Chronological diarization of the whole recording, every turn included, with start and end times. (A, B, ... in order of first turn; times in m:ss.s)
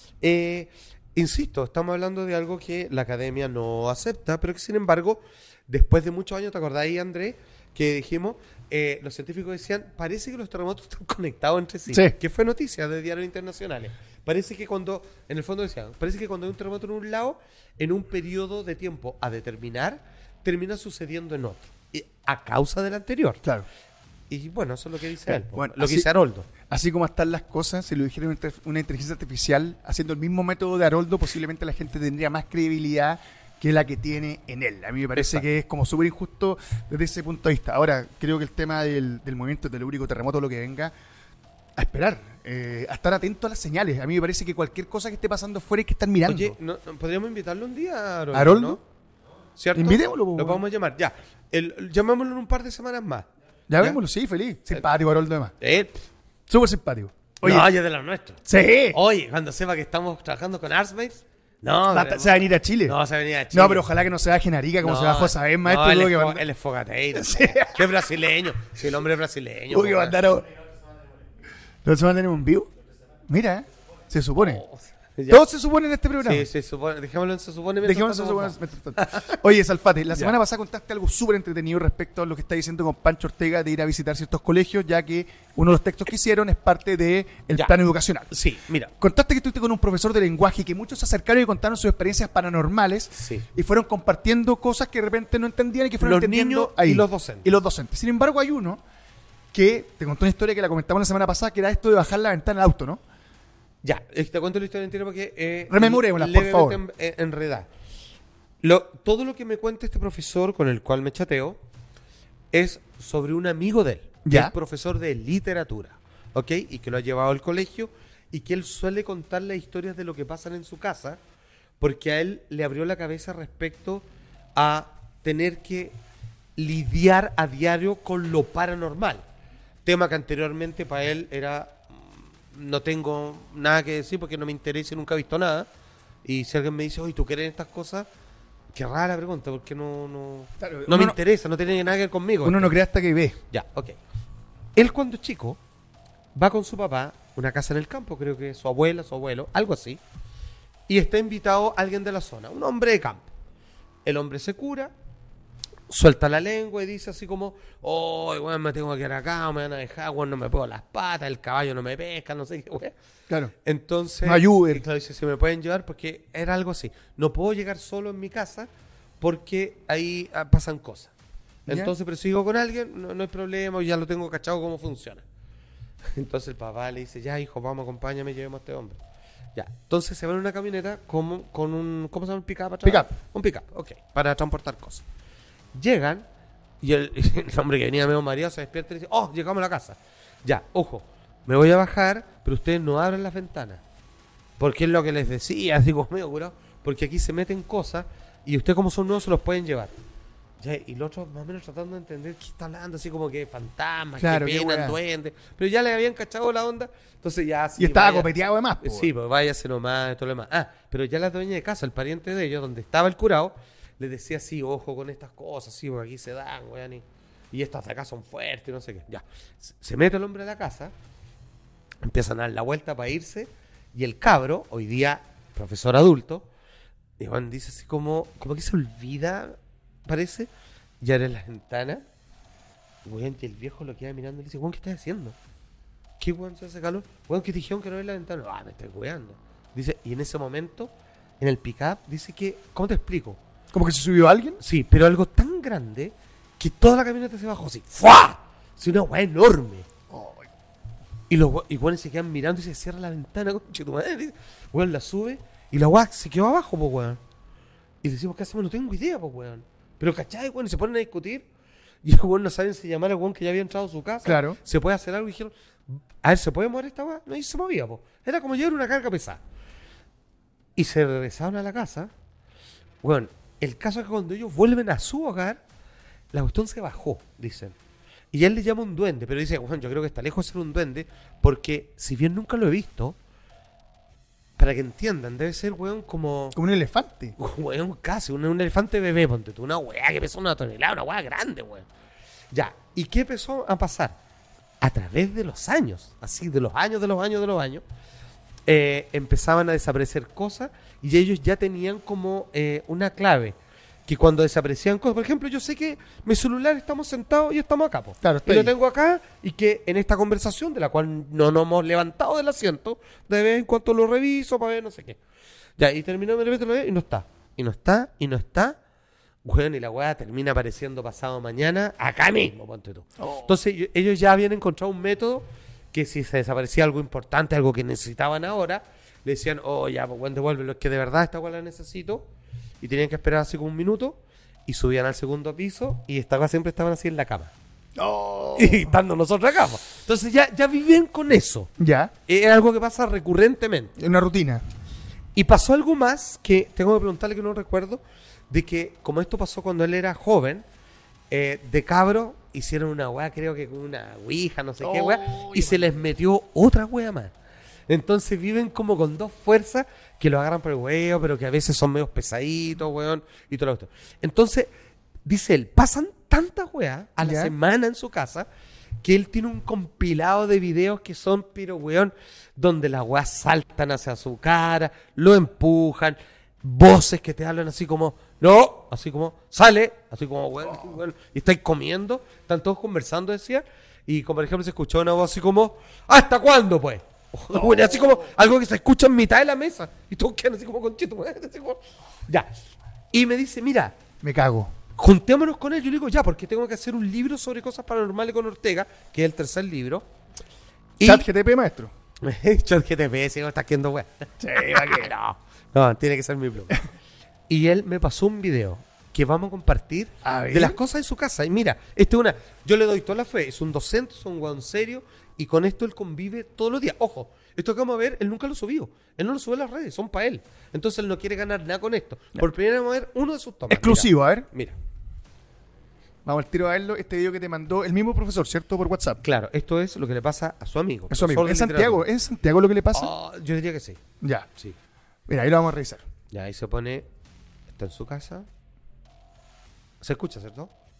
0:00.2-0:23.4 A
0:11.9-0:12.1 B
0:24.3-0:26.5 A
0:25.2-0:40.9 B
0:35.2-0:35.4 A
0:41.8-0:46.6 B
0:46.2-0:48.8 A
0:48.3-0:48.8 B
0:49.6-0:53.3 A
0:49.7-0:50.6 B
0:53.7-0:55.5 B
0:55.6-0:56.0 A
0:56.5-0:57.7 B
0:57.4-1:03.9 A
0:58.4-0:59.0 B
1:01.9-1:03.0 B
1:03.5-1:06.4 B
1:04.8-1:10.2 A
1:07.1-1:07.9 B
1:09.7-1:10.5 B
1:11.8-1:12.7 B
1:13.3-1:14.6 B
1:14.4-1:15.4 A
1:15.3-1:16.5 B
1:16.2-1:19.4 A
1:17.8-1:28.3 B
1:28.3-1:28.9 A
1:29.0-1:38.8 B
1:33.2-1:33.4 A
1:36.0-1:37.5 A
1:39.5-1:43.0 B
1:43.8-1:47.7 A
1:45.7-1:46.8 B
1:48.6-1:51.6 A
1:52.5-2:01.2 A
1:54.2-1:54.5 B
2:01.8-2:06.0 A
2:06.6-2:09.2 A
2:09.8-2:15.7 A
2:16.2-2:18.1 A
2:18.7-2:22.8 A
2:20.6-2:21.2 B
2:22.4-2:23.4 B
2:23.5-2:24.0 A
2:24.8-2:25.6 A
2:26.3-2:30.0 A
2:30.9-2:33.3 A
2:34.0-2:34.9 A
2:35.9-2:42.9 A
2:43.3-2:43.5 B
2:43.6-2:48.7 A
2:44.2-2:44.8 B
2:49.2-2:51.1 A
2:51.7-2:51.9 B
2:51.7-2:55.2 A
2:56.1-2:59.0 A
2:59.5-3:05.0 A
3:02.8-3:03.1 B
3:05.7-3:06.3 A
3:06.8-3:13.8 A
3:14.6-3:19.9 A
3:20.6-3:40.9 A
3:24.2-3:25.0 B
3:27.8-3:29.1 B
3:42.0-3:46.5 A
3:47.2-3:52.0 A
3:53.0-3:55.4 A
3:56.2-4:03.4 A
4:03.7-4:04.6 B
4:04.6-4:09.9 A
4:10.1-4:10.5 B
4:11.3-4:17.2 A
4:18.0-4:21.4 A
4:22.0-4:29.4 A
4:24.2-4:24.6 B
4:30.8-4:32.1 A
4:33.0-4:35.6 A
4:36.3-4:37.8 A
4:38.3-4:43.2 A
4:44.6-4:46.6 A
4:46.5-4:47.3 B
4:47.4-4:51.9 A
4:52.5-4:54.2 A
4:54.8-4:57.8 A
4:58.7-5:03.6 A
5:04.1-5:15.2 A
5:08.2-5:08.7 B
5:15.8-5:18.8 A
5:19.4-5:32.3 A
5:23.2-5:23.5 B
5:32.8-5:37.5 A
5:38.0-5:39.0 B
5:38.6-5:41.7 A
5:41.8-5:42.1 B
5:42.3-5:43.9 A
5:44.0-5:44.6 B
5:45.3-5:50.6 A
5:51.3-5:57.3 A
5:54.8-5:56.0 B
5:57.9-6:04.7 A
6:05.2-6:08.5 A
6:07.2-6:07.5 B
6:09.0-6:32.5 A
6:27.5-6:28.3 B
6:33.1-6:34.0 A
6:34.2-6:34.7 B
6:35.0-6:40.1 A
6:41.0-6:41.2 A
6:41.0-6:41.9 B
6:42.2-6:46.8 A
6:44.4-6:45.1 B
6:47.5-7:04.8 A
6:50.2-6:50.8 B
7:03.7-7:04.5 B
7:06.2-7:09.2 B
7:09.2-7:12.0 A
7:11.1-7:13.1 B
7:12.9-7:14.0 A
7:14.2-7:14.5 B
7:15.3-7:16.0 B
7:16.3-7:17.1 A
7:17.7-7:18.5 A
7:20.0-7:20.7 A